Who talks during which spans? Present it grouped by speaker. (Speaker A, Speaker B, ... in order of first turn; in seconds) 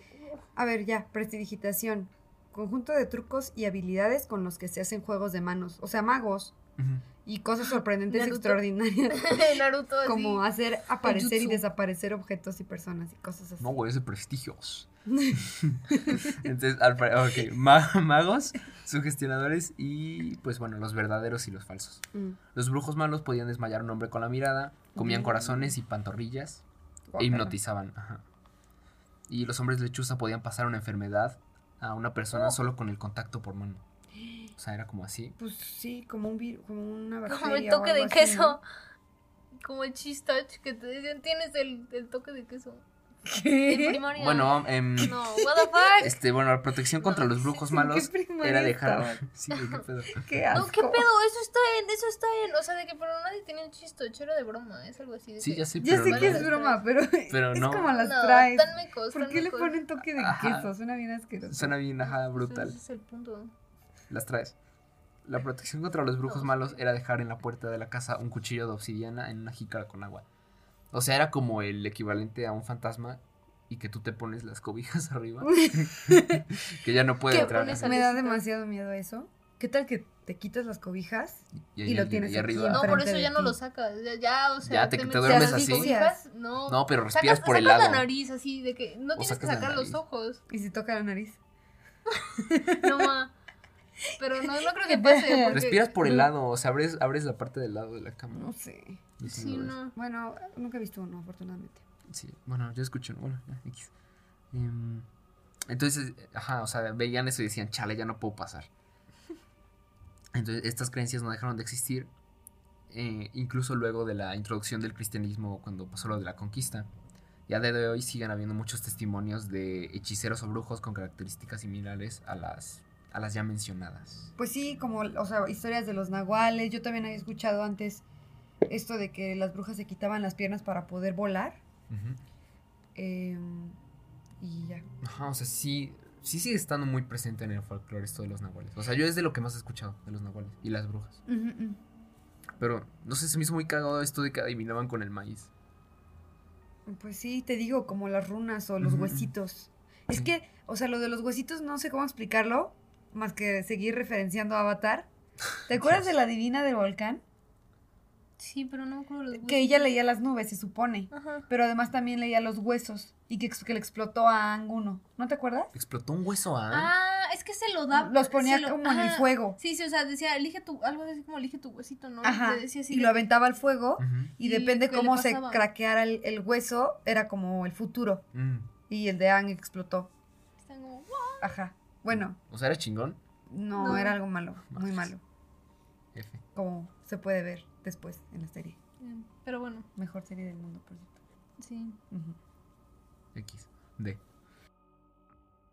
Speaker A: 0.6-6.5, 7.2-13.8, 15.1-16.4, 24.9-25.7, 27.1-27.6, 34.2-34.5, 35.4-38.6, 43.2-44.0, 45.0-45.9, 47.6-49.2, 50.2-51.1, 55.8-61.7, 75.4-76.4, 77.3-83.5, 85.2-86.2, 90.5-91.4, 92.4-93.1, 94.4-96.2, 98.3-99.0, 99.9-101.8, 124.4-128.0, 128.7-131.6, 132.9-133.8, 134.4-134.8, 141.3-141.8, 146.8-155.1, 155.6-157.2, 159.3-165.7, 167.9-169.6, 172.2-178.2, 178.9-180.1, 181.4-182.4, 183.5-185.2, 186.5-188.8, 189.9-191.1, 192.1-192.4
Speaker B: 6.8-7.0, 13.6-26.6, 27.2-28.2, 29.3-33.8, 34.5-35.4, 44.1-45.2, 46.0-50.7, 55.4-56.5, 57.3-57.9, 60.1-60.7, 61.5-62.8, 64.1-64.5, 65.2-70.2, 70.9-77.9, 81.7-83.1, 84.6-85.9, 86.6-88.1, 89.2-90.0, 95.5-98.5, 99.2-99.8, 102.1-103.9, 104.5-105.1, 105.7-108.7, 110.3-112.1, 112.9-116.9, 117.5-124.3, 131.9-132.2, 135.0-141.2, 142.6-145.5, 148.8-149.3, 155.8-156.1, 165.7-166.9, 174.0-174.3, 178.3-178.7, 182.1-183.2, 184.7-185.1, 186.1-186.4, 193.3-194.2
Speaker C: 8.1-10.4, 11.0-11.6, 37.3-38.6, 39.6-42.8, 43.6-46.2, 47.0-47.4, 49.5-49.8, 50.5-56.8, 57.9-59.8, 62.1-63.5, 66.2-66.8, 77.3-78.4, 82.7-90.4, 92.7-93.3, 94.2-95.8, 99.2-99.9, 158.4-159.9, 161.1-161.4, 166.7-173.3, 174.4-175.6, 180.6-181.6, 183.8-184.2, 189.0-189.9, 191.6-192.0